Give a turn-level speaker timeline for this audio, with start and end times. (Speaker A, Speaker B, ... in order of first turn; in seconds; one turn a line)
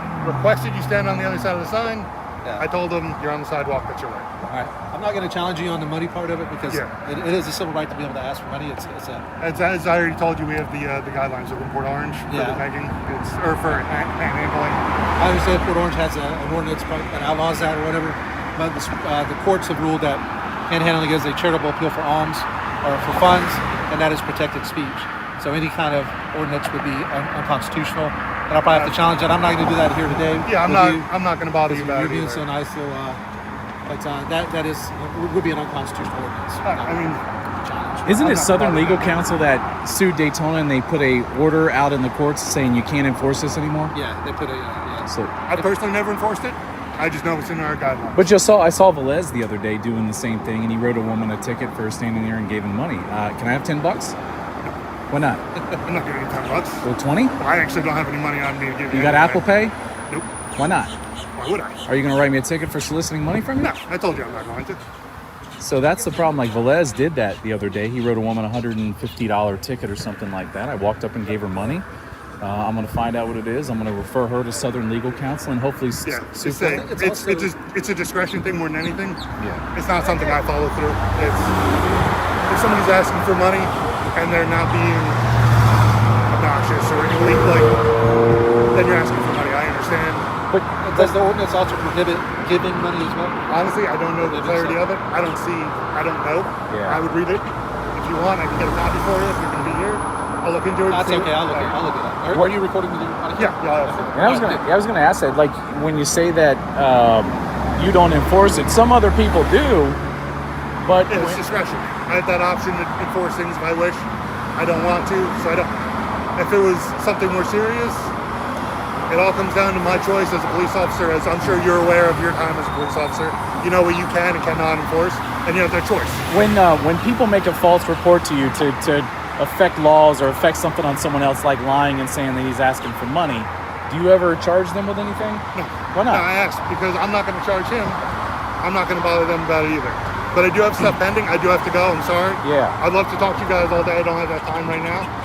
Speaker A: 0.2-4.3
Speaker B: 4.5-9.3
Speaker A: 9.4-14.8
Speaker B: 12.3-12.6
Speaker B: 15.2-31.1
Speaker A: 28.7-29.0
Speaker A: 30.5-32.5
Speaker B: 31.6-33.2
Speaker B: 33.9-39.2
Speaker A: 36.6-37.2
Speaker C: 38.1-44.0
Speaker B: 43.9-45.7
Speaker C: 45.0-45.4
Speaker A: 45.5-48.3
Speaker C: 48.1-54.2
Speaker C: 55.1-55.4
Speaker A: 55.9-56.9
Speaker C: 56.8-57.4
Speaker A: 57.4-59.5
Speaker C: 58.9-59.7
Speaker C: 60.6-60.9
Speaker A: 61.4-61.8
Speaker C: 61.9-63.7
Speaker A: 63.6-64.8
Speaker C: 65.6-71.9
Speaker C: 72.4-76.9
Speaker A: 76.0-79.2
Speaker B: 76.6-77.5
Speaker C: 79.4-79.6
Speaker A: 79.7-81.5
Speaker A: 82.5-85.2
Speaker A: 86.3-87.8
Speaker A: 88.7-90.3
Speaker C: 90.5-91.2
Speaker B: 90.8-93.4
Speaker A: 93.5-101.8
Speaker B: 94.2-94.9
Speaker C: 96.7-97.0
Speaker B: 100.9-104.6
Speaker C: 102.3-102.6
Speaker A: 103.4-104.4
Speaker C: 104.1-110.0
Speaker C: 110.8-111.4
Speaker A: 111.1-115.8
Speaker A: 116.4-118.1
Speaker A: 119.1-126.3
Speaker C: 126.3-136.3
Speaker A: 135.5-138.0
Speaker A: 138.6-145.1
Speaker C: 142.4-142.8